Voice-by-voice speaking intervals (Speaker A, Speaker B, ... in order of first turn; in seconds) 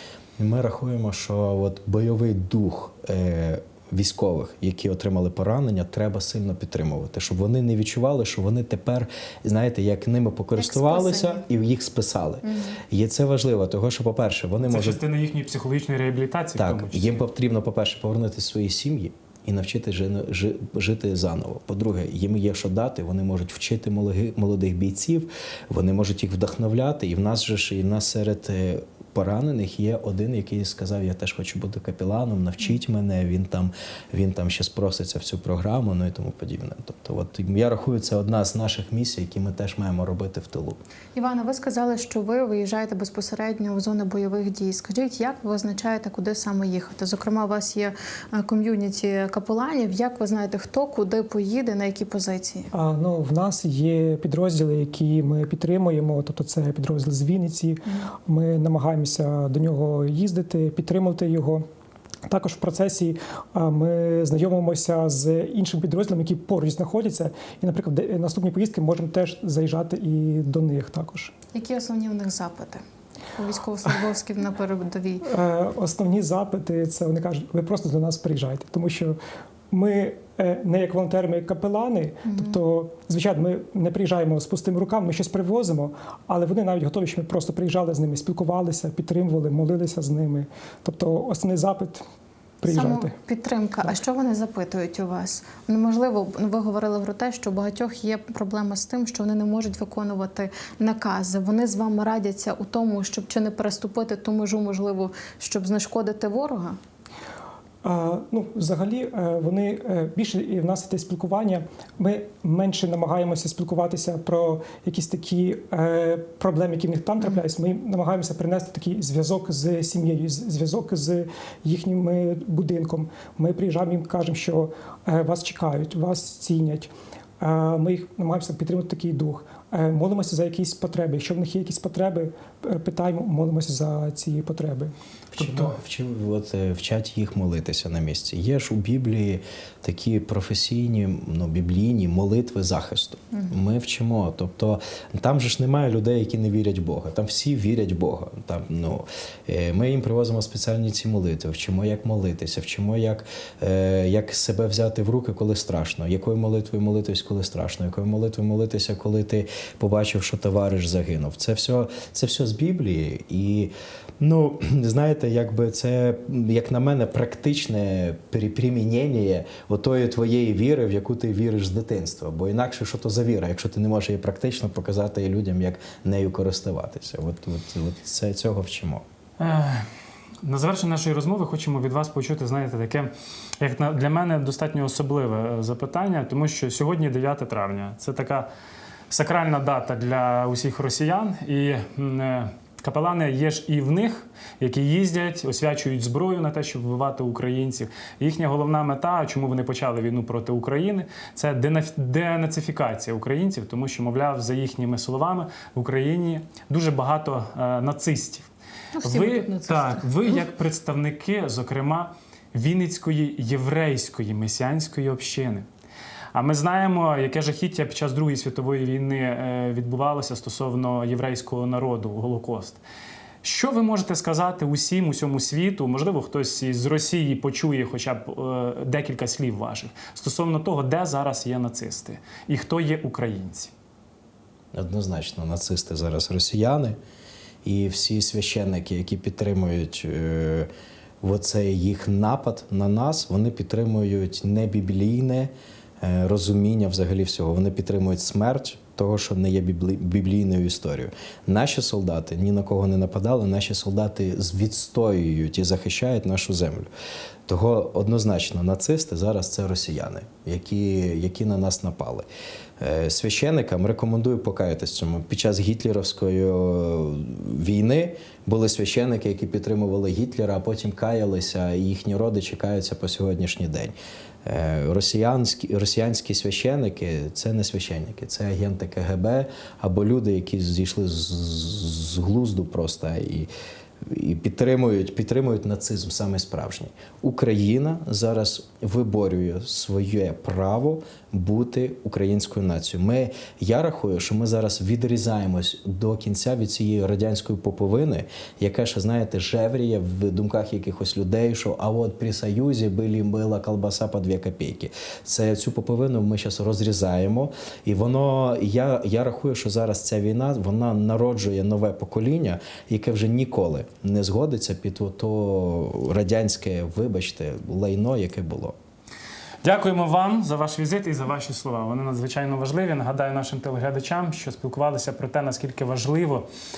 Speaker A: 0.4-15.0, 16.6-40.8, 135.3-179.0, 234.7-236.9, 237.6-240.7, 241.2-256.9, 257.5-262.2, 262.8-283.5, 284.0-318.7
Speaker B: 10.6-11.4, 12.4-12.8, 41.1-52.7, 71.5-72.8, 73.4-75.3, 82.2-82.6, 92.6-106.8, 209.0-210.1
Speaker C: 14.7-17.2, 179.4-179.9, 180.4-188.5, 189.1-208.5, 209.0-215.7, 216.3-222.8, 223.4-233.7, 319.6-326.5
Speaker D: 52.7-61.6, 62.3-71.3, 75.2-79.2, 79.7-92.0, 92.6-93.1, 107.8-134.9